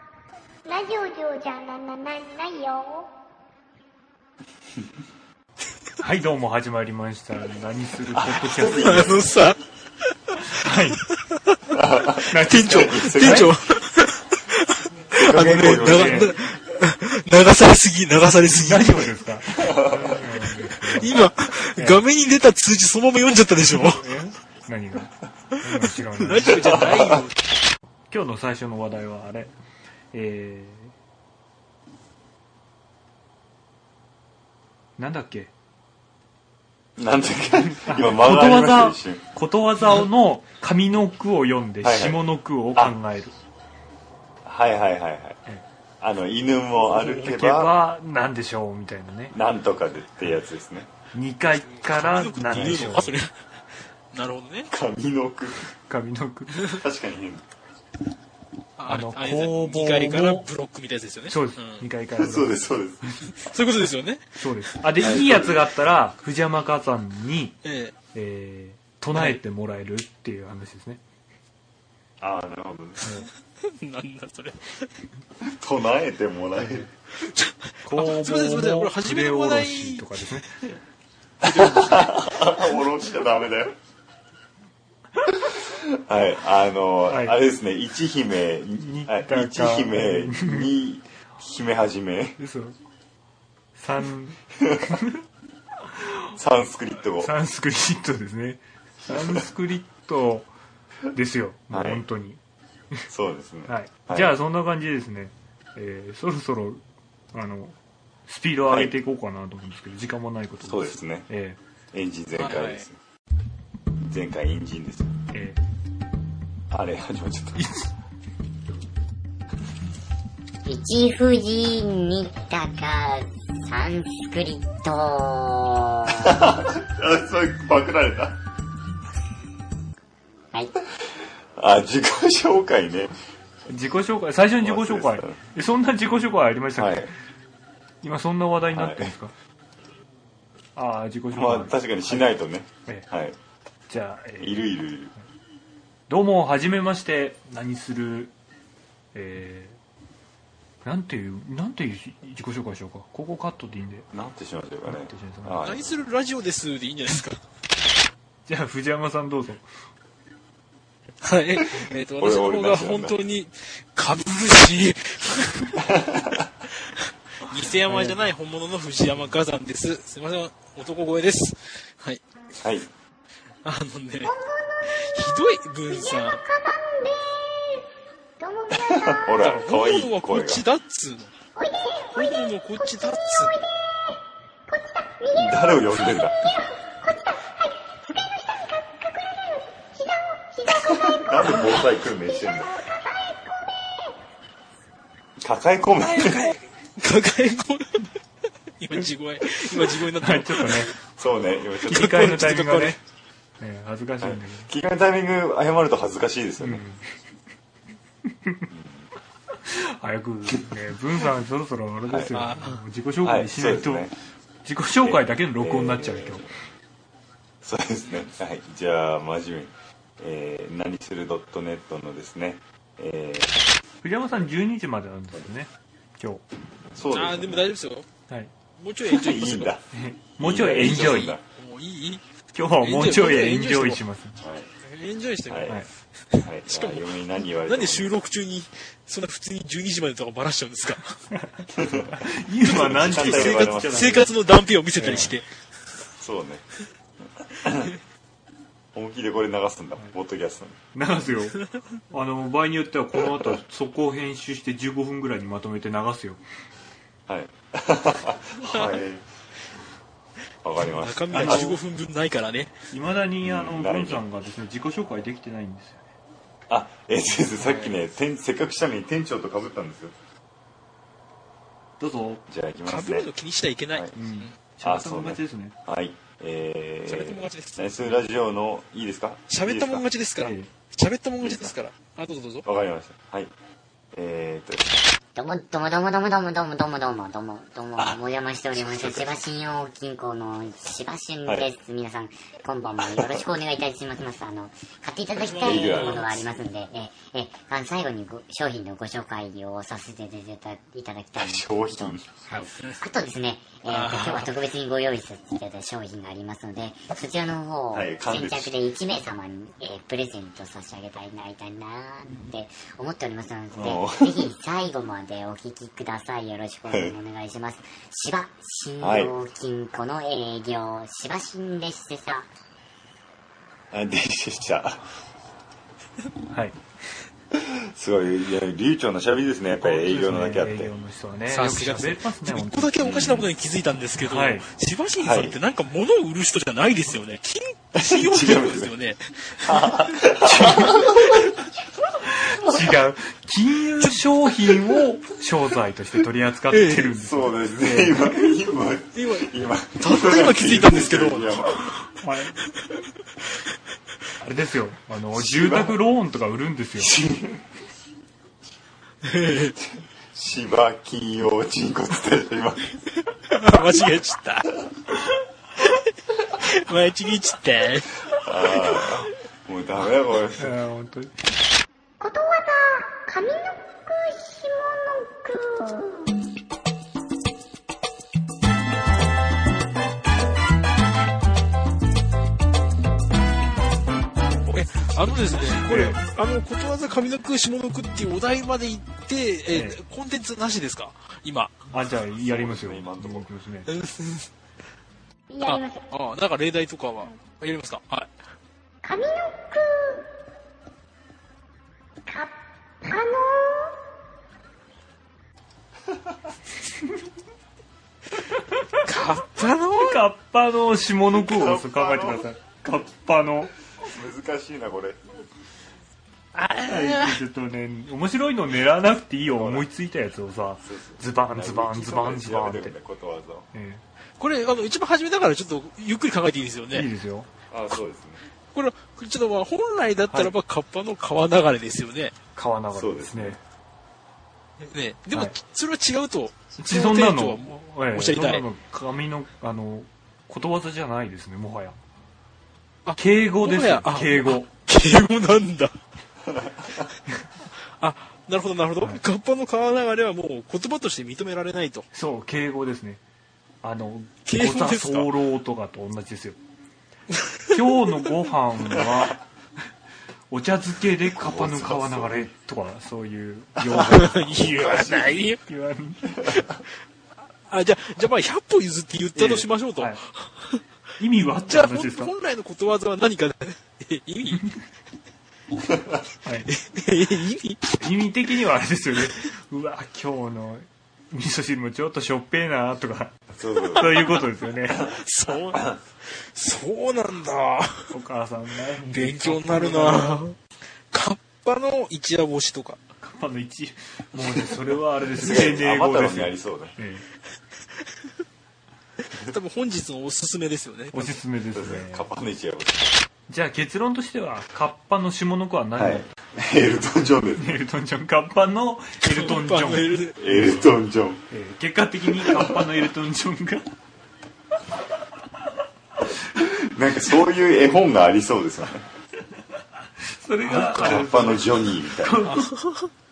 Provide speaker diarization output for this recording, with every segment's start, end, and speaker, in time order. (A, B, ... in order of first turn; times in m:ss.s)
0:00.6-0:03.1 A
0:06.0-0:09.2 B
0:08.1-0:09.3 C
0:08.6-0:09.6 D
0:10.5-0:11.0 B
0:11.1-0:11.6 D
0:11.7-0:13.6 C
0:12.3-0:13.5 B
0:12.3-0:19.1 D
0:15.2-0:16.3 C
0:15.6-0:16.4 B
0:18.5-0:22.0 B
0:19.6-0:20.3 C
0:20.8-0:24.1 D
0:23.7-0:26.9 B
0:25.6-0:27.4 D
0:26.6-0:27.2 C
0:28.1-0:29.5 B
0:30.1-0:30.9 B
0:35.0-0:35.5 B
0:37.0-0:39.2 C
0:37.8-0:43.4 B
0:41.8-0:42.2 C
0:44.4-0:45.4 C
0:46.0-0:47.8 C
0:46.8-0:49.4 B
0:49.3-0:50.9 C
0:51.1-0:53.2 B
0:51.7-0:53.3 D
0:52.5-0:53.0 C
0:54.1-0:54.7 D
0:54.7-0:55.7 C
0:55.9-0:56.6 B
0:56.7-0:57.4 C
0:58.8-1:01.8 D
0:58.9-1:00.5 B
1:01.3-1:02.6 B
1:02.2-1:03.1 C
1:03.4-1:04.4 D
1:04.4-1:07.6 B
1:05.0-1:05.6 C
1:07.6-1:07.9 D
1:08.1-1:11.0 B
1:12.2-1:13.1 C
1:13.0-1:13.3 B
1:13.6-1:14.9 D
1:15.4-1:16.9 C
1:17.2-1:20.2 D
1:17.8-1:20.6 B
1:21.4-1:23.8 C
1:21.4-1:22.3 D
1:25.5-1:32.4 C
1:27.1-1:27.4 B
1:28.8-1:30.7 B
1:32.4-1:32.8 B
1:33.8-1:34.4 B
1:34.6-1:34.9 C
1:34.9-1:35.2 B
1:36.4-1:37.3 C
1:37.2-1:40.5 B
1:39.1-1:39.4 C
1:41.1-1:42.4 B
1:41.7-1:42.0 C
1:43.1-1:44.4 C
1:43.7-1:47.8 B
1:48.3-1:51.6 B
1:50.7-1:51.3 C
1:51.9-1:53.0 C
1:52.4-1:52.8 D
1:54.0-1:55.1 C
1:55.3-1:55.6 B
1:56.7-1:57.6 C
1:57.6-1:57.9 B
2:00.6-2:06.6 E
2:06.1-2:08.4 C
2:11.6-2:13.1 C
2:13.7-2:17.1 B
2:14.6-2:15.4 C
2:16.8-2:17.1 C
2:18.0-2:19.3 B
2:18.7-2:19.2 C
2:20.8-2:22.3 B
2:21.3-2:23.4 C
2:23.9-2:24.7 B
2:24.4-2:25.1 C
2:26.1-2:28.3 B
2:29.1-2:29.8 B
2:30.8-2:34.1 B
2:34.1-2:36.0 C
2:34.9-2:35.6 B
2:35.6-2:37.4 D
2:38.5-2:39.7 B
2:41.2-2:45.8 D
2:42.2-2:43.2 C
2:45.8-2:46.5 C
2:47.4-2:52.2 D
2:47.9-2:48.3 B
2:52.6-2:52.9 C
2:53.6-2:54.3 D
2:54.2-2:57.9 A
2:54.9-2:56.4 D
2:58.4-2:59.4 A
2:58.8-3:00.6 C
2:59.4-3:01.3 D
3:01.6-3:14.2 A
3:02.2-3:03.5 D
3:05.4-3:06.4 C
3:10.8-3:12.7 C
3:15.4-3:16.5 C
3:16.0-3:18.1 D
3:18.8-3:20.9 D
3:20.2-3:20.9 B
3:21.2-3:22.3 C
3:21.8-3:23.0 D
3:21.9-3:23.0 B
3:23.6-3:24.7 B
3:24.2-3:26.8 C
3:26.6-3:27.0 B
3:28.7-3:29.0 C
3:29.6-3:34.1 B
3:32.1-3:32.3 C
3:32.3-3:32.8 D
3:33.2-3:34.2 C
3:34.6-3:36.4 B
3:35.0-3:36.5 C
3:37.6-3:43.5 C
3:44.0-3:46.4 B
3:47.0-3:47.7 C
3:47.1-3:48.1 D
3:48.8-3:49.7 D
3:49.1-3:49.8 C
3:49.9-3:51.4 B
3:50.4-3:51.4 C
3:50.8-3:52.2 D
3:52.5-3:54.4 B
3:52.8-3:54.0 D
3:54.4-3:54.7 C
3:54.8-3:55.8 D
3:55.5-3:55.8 C
3:56.3-4:01.2 D
3:56.4-3:58.2 C
4:01.3-4:04.3 B
4:01.7-4:04.2 C
4:02.7-4:05.5 D
4:05.0-4:05.4 B
4:06.2-4:06.6 C
4:07.6-4:07.9 C
4:08.9-4:10.8 C
4:10.9-4:11.6 B
4:12.1-4:16.4 B
4:17.3-4:19.2 C
4:18.6-4:19.0 D
4:20.6-4:21.7 C
4:20.8-4:22.7 D
4:21.3-4:21.8 B
4:22.9-4:26.0 B
4:23.4-4:24.2 C
4:26.7-4:30.1 C
4:32.0-4:32.4 B
4:32.5-4:33.3 C
4:32.9-4:34.5 D
4:34.2-4:35.8 B
4:34.8-4:40.0 C
4:37.1-4:38.2 D
4:39.5-4:42.7 D
4:40.4-4:40.7 B
4:41.4-4:41.7 C
4:42.6-4:43.5 C
4:44.1-4:45.0 C
4:45.4-5:22.5 E
4:48.7-4:49.4 C
4:53.0-4:53.4 C
4:55.4-4:56.4 D
4:55.6-4:56.4 C
5:01.4-5:02.7 C
5:02.6-5:03.0 D
5:03.9-5:04.6 D
5:07.9-5:08.8 C
5:13.8-5:14.5 C
5:16.9-5:17.2 C
5:19.0-5:19.3 C
5:23.9-5:25.0 C
5:26.5-5:26.8 B
5:27.5-5:30.9 C
5:29.8-5:33.5 B
5:31.5-5:41.5 D
5:34.2-5:34.7 B
5:35.2-5:35.6 C
5:38.0-5:38.9 C
5:39.7-5:41.4 C
5:40.5-5:41.1 B
5:42.4-5:48.2 B
5:46.7-5:47.1 D
5:47.2-5:51.9 C
5:49.2-5:52.0 D
5:52.2-5:52.6 B
5:54.4-5:57.1 B
5:55.4-5:56.0 C
5:57.0-5:57.6 C
5:59.2-5:59.8 D
6:00.3-6:02.9 C
6:03.4-6:04.7 D
6:06.6-6:08.2 D
6:08.4-6:10.7 C
6:10.6-6:11.3 B
6:12.2-6:16.4 A
6:24.7-6:31.8 D
6:25.8-6:26.2 B
6:29.7-6:30.0 B
6:31.9-6:33.9 B
6:32.3-6:33.5 C
6:33.9-6:34.5 D
6:35.5-6:36.1 A
6:35.6-6:38.3 D
6:39.0-6:40.3 A
6:42.3-6:44.0 A
6:49.0-6:50.2 D
6:49.9-6:53.7 B
6:51.4-6:52.5 C
6:54.0-6:55.2 C
6:56.5-6:57.4 D
6:56.8-7:03.0 B
6:59.5-6:59.9 C
7:00.8-7:03.7 C
7:03.7-7:04.0 B
7:04.4-7:07.1 D
7:06.9-7:07.5 B
7:07.7-7:08.4 C
7:08.7-7:12.4 D
7:12.6-7:13.6 B
7:13.0-7:13.6 C
7:14.8-7:18.6 D
7:16.8-7:22.0 B
7:23.0-7:26.0 D
7:23.2-7:24.7 B
7:26.5-7:27.0 C
7:28.0-7:32.1 D
7:32.1-7:33.2 B
7:33.8-7:36.6 B
7:34.5-7:35.3 D
7:37.3-7:37.8 D
7:37.7-7:39.4 B
7:40.5-7:46.4 B
7:41.4-7:42.5 C
7:43.9-7:45.6 D
7:47.7-7:50.8 D
7:49.4-7:50.2 B
7:51.2-7:52.3 B
7:51.6-7:54.7 D
7:55.9-7:56.2 C
7:56.7-7:58.0 D
7:58.0-8:03.3 B
8:03.6-8:04.4 C
8:04.0-8:05.1 B
8:05.0-8:05.8 D
8:06.4-8:08.1 D
8:08.1-8:10.4 B
8:09.0-8:10.6 D
8:11.1-8:13.0 D
8:13.2-8:17.2 B
8:15.3-8:17.0 C
8:19.4-8:21.4 D
8:21.1-8:22.3 B
8:21.8-8:23.1 C
8:23.5-8:26.3 B
8:26.0-8:27.8 C
8:27.6-8:30.9 B
8:29.2-8:30.4 D
8:30.4-8:31.4 C
8:31.5-8:33.8 B
8:32.5-8:32.8 C
8:36.6-8:39.0 C
8:40.2-8:42.7 B
8:40.7-8:42.5 C
8:42.6-8:43.1 D